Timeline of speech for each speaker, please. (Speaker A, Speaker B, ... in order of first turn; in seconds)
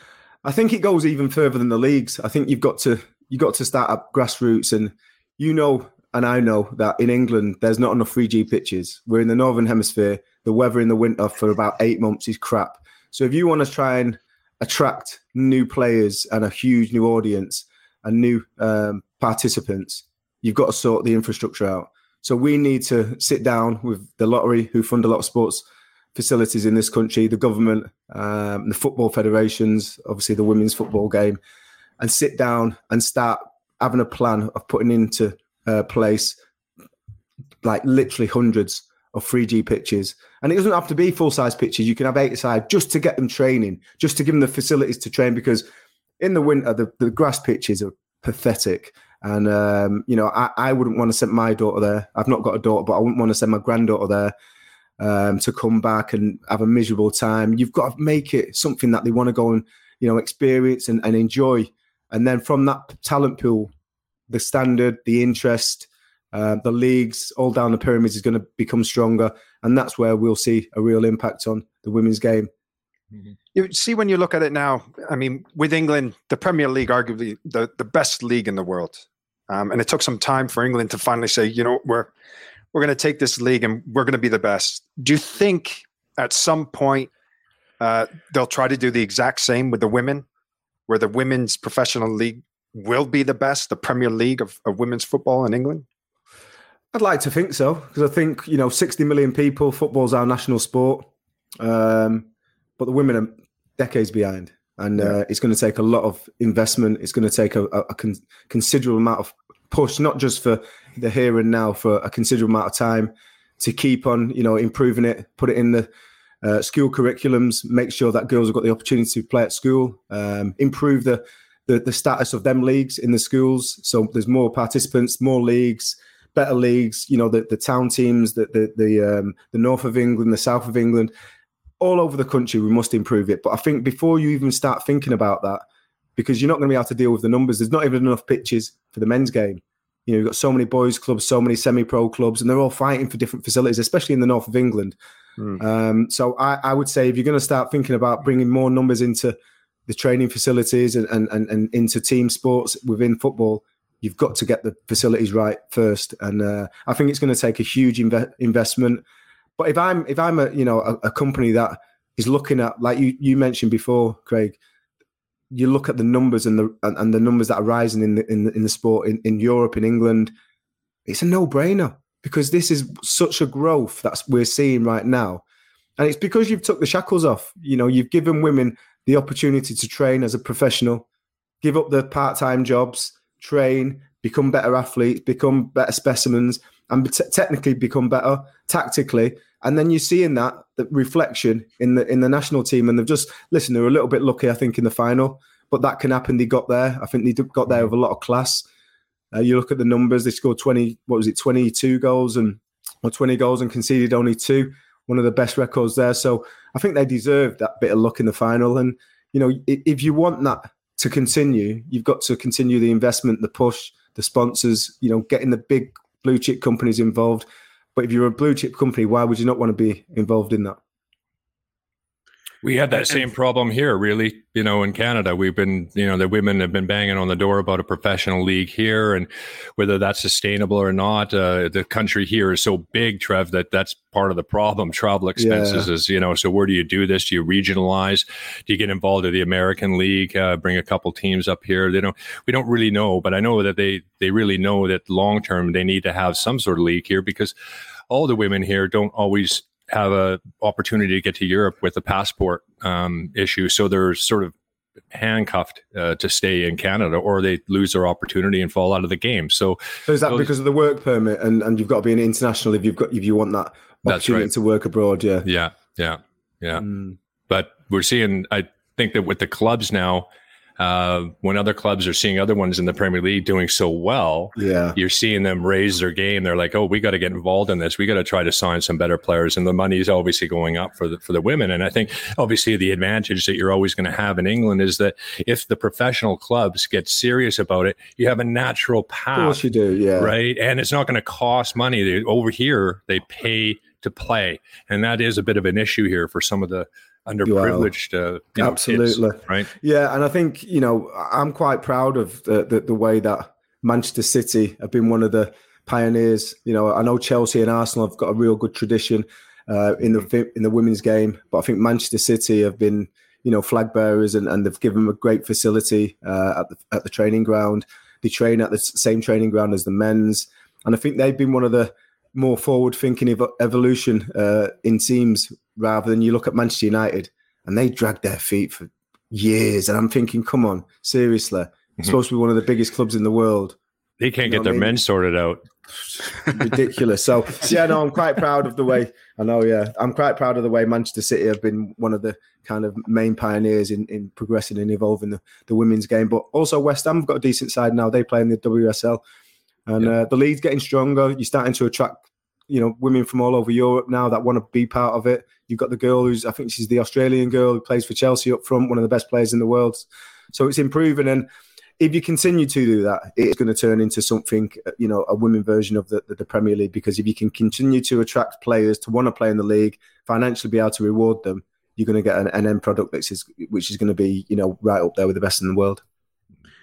Speaker A: 0.4-31.4, 32.0-36.4, 37.6-45.7, 46.2-54.3, 55.0-63.7, 64.3-72.5, 96.9-101.1, 101.6-102.3, 102.8-115.9, 116.4-131.1, 131.8-135.6, 136.2-145.0, 145.6-149.4, 149.9-159.0, 159.6-164.6, 165.5-170.3, 171.1-175.4, 176.0-181.1, 181.6-198.7, 199.3-220.8, 235.4-235.9, 260.1-265.5, 266.8-267.2, 274.6-275.0, 289.3-290.3, 297.4-297.9, 298.6-333.8, 334.4-335.0, 336.5-349.2, 349.9-376.0
Speaker B: 73.5-82.1, 82.7-87.1, 87.8-90.3, 90.9-95.8
Speaker C: 222.6-247.5, 248.1-254.5, 255.1-260.5, 264.1-264.5, 265.4-266.9, 267.5-289.6, 290.2-299.7, 334.2-335.6